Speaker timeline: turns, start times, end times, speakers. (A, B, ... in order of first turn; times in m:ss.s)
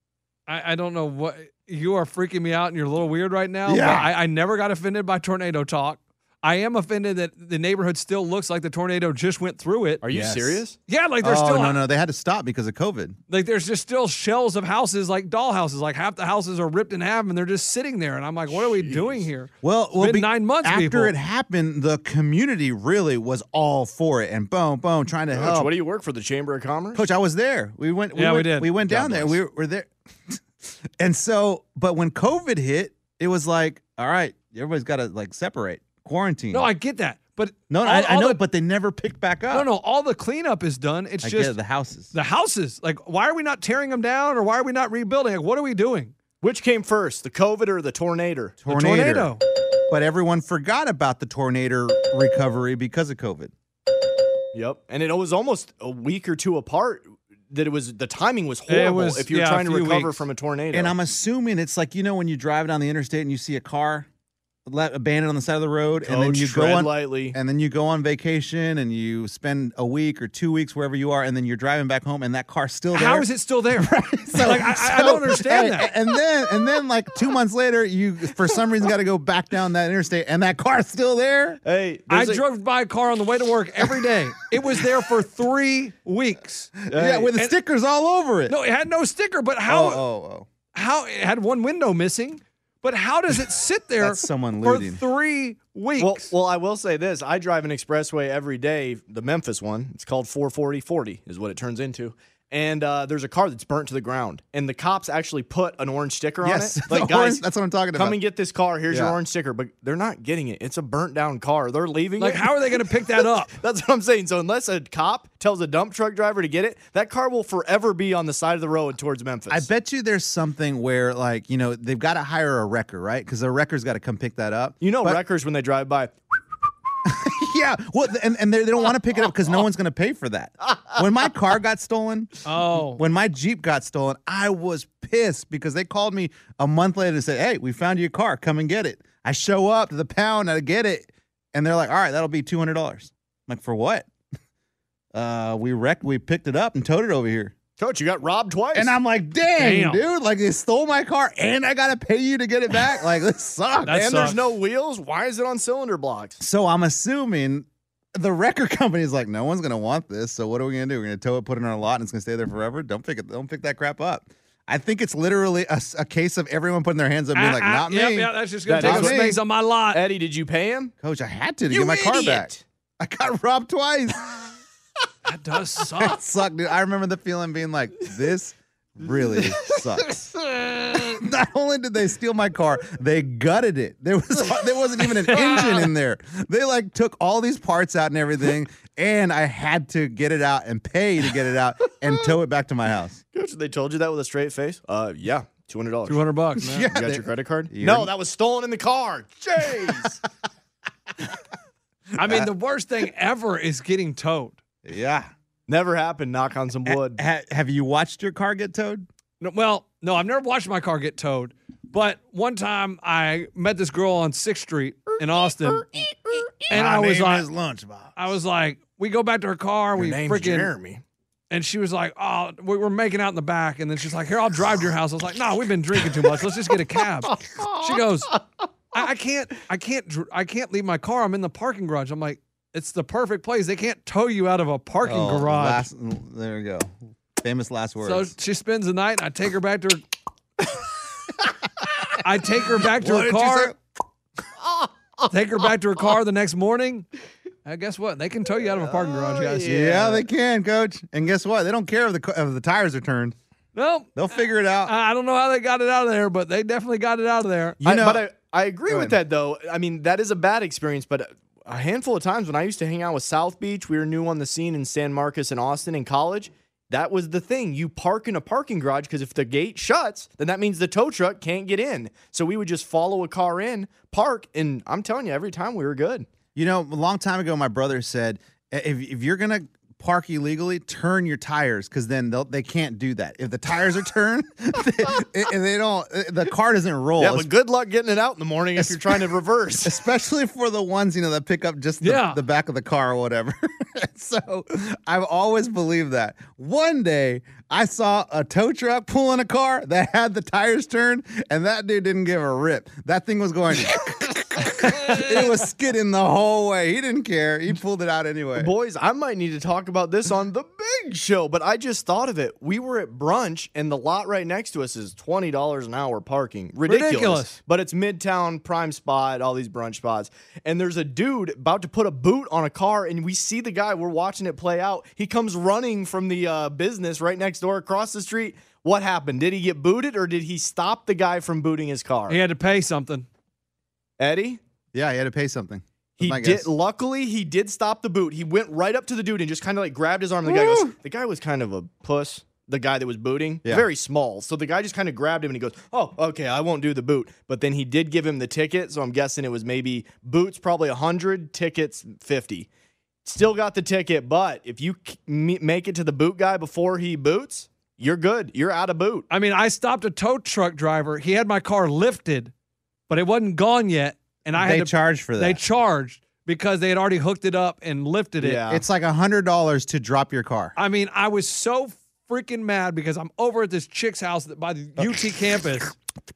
0:00.5-0:10.0 A
0:03.7-0:04.1 B
0:10.0-0:10.8 C
0:10.1-0:10.6 B
0:10.9-0:11.8 A
0:11.2-0:13.2 B
0:13.3-0:21.1 A
0:18.5-0:19.3 C
0:19.6-0:25.7 B
0:25.3-0:27.1 C
0:27.0-0:36.7 B
0:28.1-0:28.7 A
0:28.8-0:29.4 C
0:36.5-0:38.4 A
0:37.7-0:39.7 B
0:39.5-0:41.6 A
0:41.2-0:42.1 B
0:42.1-0:46.1 A
0:46.4-0:48.6 C
0:48.6-0:49.4 B
0:48.7-0:49.4 A
0:49.9-0:53.5 B
0:54.5-1:01.0 C
0:58.7-1:00.2 A
1:00.7-1:04.1 B
1:04.7-1:21.6 B
1:06.0-1:07.4 C
1:12.9-1:15.9 A
1:21.6-1:22.4 C
1:22.1-1:26.8 A
1:26.8-1:28.6 B
1:26.9-1:27.3 C
1:28.5-1:30.0 A
1:29.7-1:30.5 B
1:30.7-1:36.3 A
1:34.0-1:35.0 B
1:36.0-1:59.7 C
1:46.4-1:48.2 B
1:48.9-1:49.2 B
1:52.2-1:53.5 A
1:59.5-2:05.2 B
2:04.8-2:06.4 C
2:07.0-2:24.1 B
2:12.5-2:13.0 A
2:25.1-2:27.6 B
2:27.8-2:29.0 C
2:28.7-2:34.4 B
2:29.6-2:30.0 A
2:33.9-2:34.4 A
2:34.0-2:36.4 C
2:36.4-2:49.4 B
2:47.4-2:50.0 A
2:48.7-2:49.4 C
2:49.9-2:50.9 C
2:51.0-2:54.5 B
2:51.7-2:52.6 C
2:55.2-2:56.2 A
2:55.9-3:00.2 B
2:59.2-3:01.0 C
3:00.9-3:13.2 B
3:13.3-3:16.3 C
3:16.1-3:16.9 A
3:16.6-3:18.1 B
3:16.9-3:20.2 C
3:22.2-3:24.6 A
3:22.2-3:22.5 B
3:24.8-3:25.3 B
3:25.7-3:27.2 C
3:26.8-3:29.1 B
3:29.4-3:35.9 A
3:36.7-3:38.3 B
3:36.7-3:37.5 A
3:38.2-3:40.7 A
3:40.0-3:41.0 C
3:41.5-3:48.3 A
3:48.9-3:55.9 A
3:55.0-3:58.3 B
3:58.0-4:00.0 A
4:02.2-4:03.7 A
4:02.7-4:03.8 B
4:05.3-4:07.1 A
4:07.6-4:09.8 A
4:08.8-4:10.3 C
4:09.6-4:13.4 B
4:13.8-4:14.3 A
4:14.2-4:14.9 B
4:14.8-4:17.8 A
4:17.8-4:18.3 B
4:17.8-4:36.3 C
4:18.9-4:19.2 B
4:36.6-4:47.5 B
4:47.2-4:50.0 C
4:48.8-5:08.7 B
4:52.0-4:52.4 A
5:08.6-5:32.4 C
5:16.9-5:17.6 A
5:32.3-5:33.3 A
5:34.2-5:34.6 C
5:34.9-5:36.7 B
5:36.2-5:52.7 C
5:40.4-5:40.9 B
5:53.3-5:59.3 C
5:59.3-6:02.5 A
6:03.1-6:08.6 A
6:04.5-6:05.6 B
6:08.4-6:08.8 C
6:08.7-6:10.8 B
6:10.8-6:16.0 A